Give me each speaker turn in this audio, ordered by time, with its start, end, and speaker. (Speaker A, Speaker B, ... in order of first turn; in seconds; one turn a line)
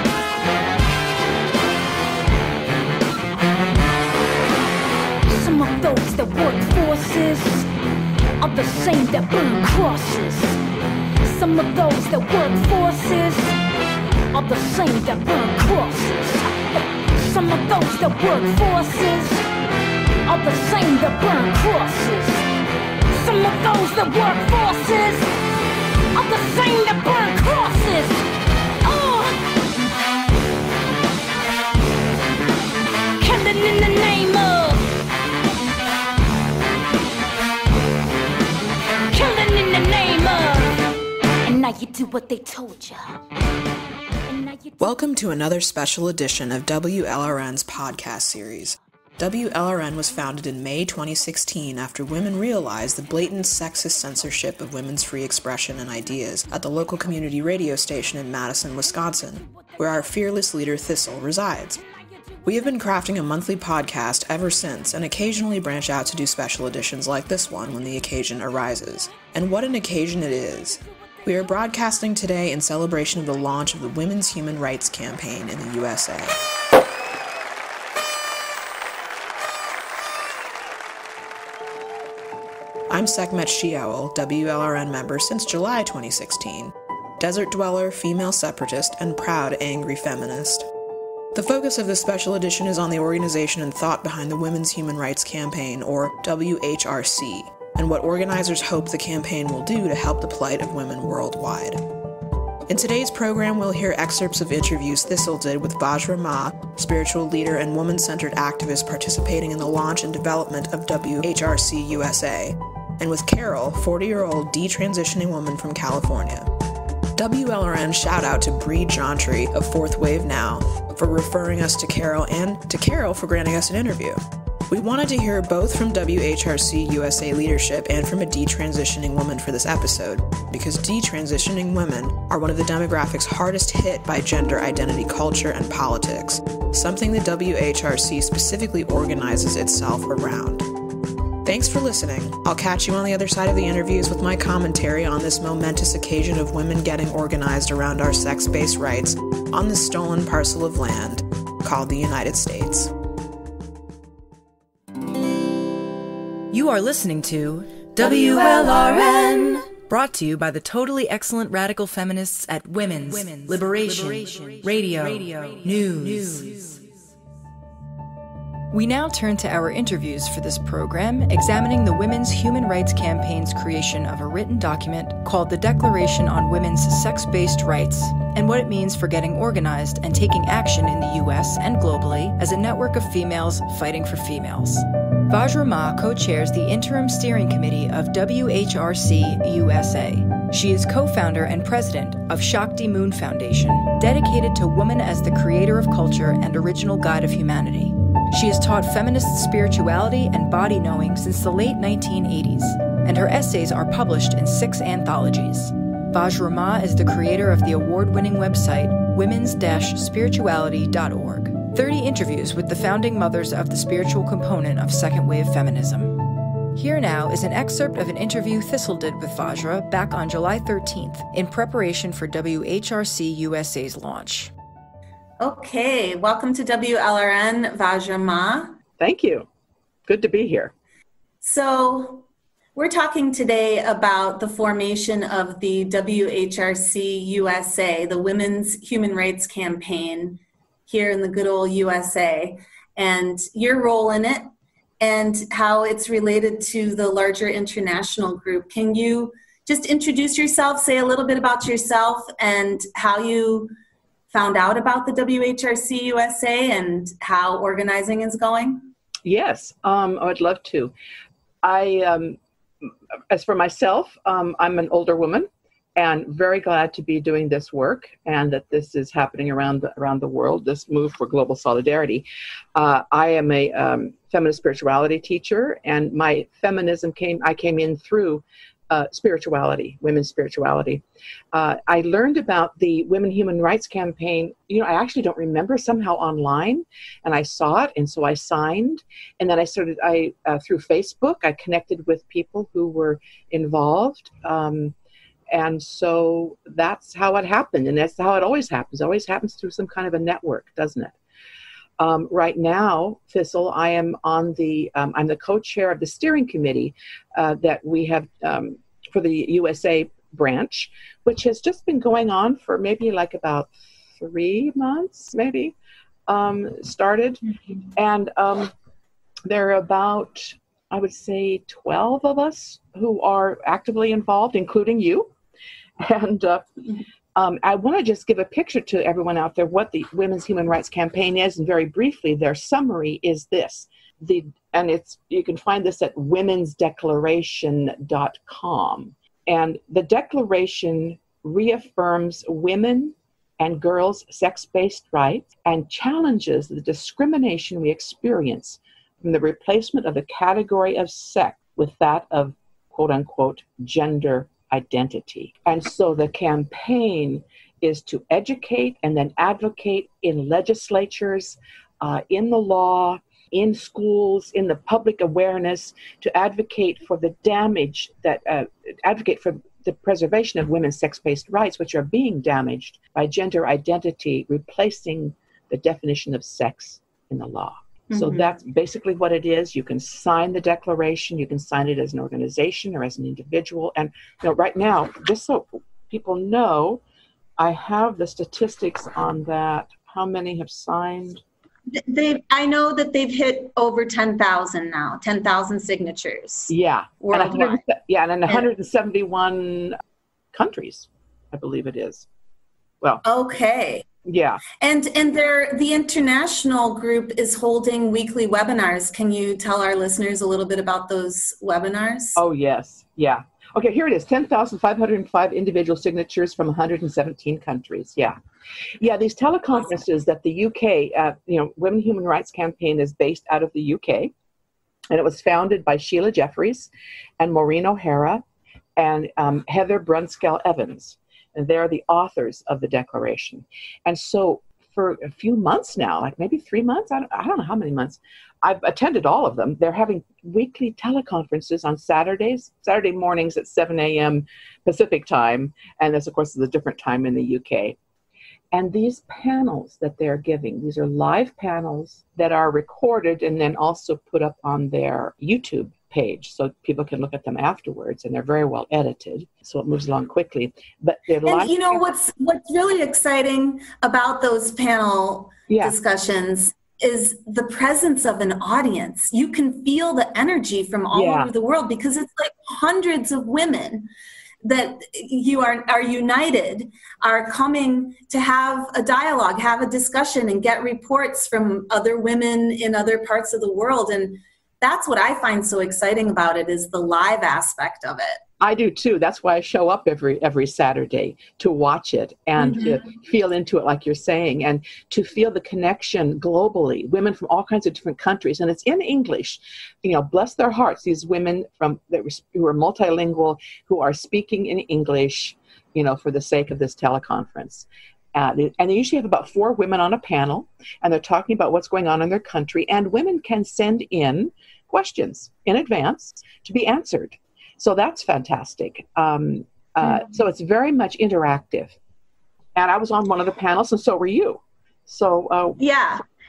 Speaker A: 5.3-7.7
Speaker A: 8.4-10.6
Speaker A: 11.2-13.6
Speaker A: 14.3-16.6
Speaker A: 17.2-19.4
Speaker A: 20.3-22.4
Speaker A: 23.2-25.3
Speaker A: 26.1-28.2
Speaker A: 28.8-29.4
Speaker A: 33.2-34.8
Speaker A: 39.1-40.8
Speaker A: 41.4-43.2
Speaker A: 44.3-44.8
Speaker B: 44.8-61.8
Speaker B: 62.4-76.4
Speaker B: 82.9-90.7
Speaker B: 91.3-101.8
Speaker B: 102.7-116.5
Speaker B: 117.2-140.7
Speaker B: 141.4-152.9
Speaker C: 156.5-166.8
Speaker C: 168.7-216.2
Speaker C: 216.7-224.5
Speaker D: 225.4-228.8
Speaker E: 229.0-229.5
Speaker E: 230.1-230.7
Speaker D: 231.4-232.2
Speaker D: 232.8-244.5
Speaker D: 245.0-253.7
Speaker D: 254.3-258.9
Speaker E: 259.2-260.9
Speaker E: 261.6-294.9
Speaker E: 295.5-301.2
Speaker E: 302.0-315.8
Speaker E: 316.3-318.7
Speaker E: 319.5-325.3
Speaker E: 326.0-326.8
Speaker E: 327.4-387.0
Speaker D: 378.1-378.5
Speaker E: 387.6-391.4
Speaker D: 391.9-397.8
Speaker E: 396.7-400.0
Speaker E: 400.5-402.3
Speaker D: 403.2-404.1
Speaker E: 404.2-404.6
Speaker D: 404.8-412.4
Speaker E: 412.4-418.4
Speaker E: 419.0-424.3
Speaker E: 425.1-428.4
Speaker E: 429.0-448.0
Speaker E: 448.7-462.1
Speaker D: 461.5-474.1
Speaker E: 465.7-466.0
Speaker E: 471.1-471.5
Speaker D: 474.6-488.4
Speaker E: 488.6-522.0
Speaker D: 492.6-493.0
Speaker E: 522.8-525.8
Speaker D: 525.8-526.2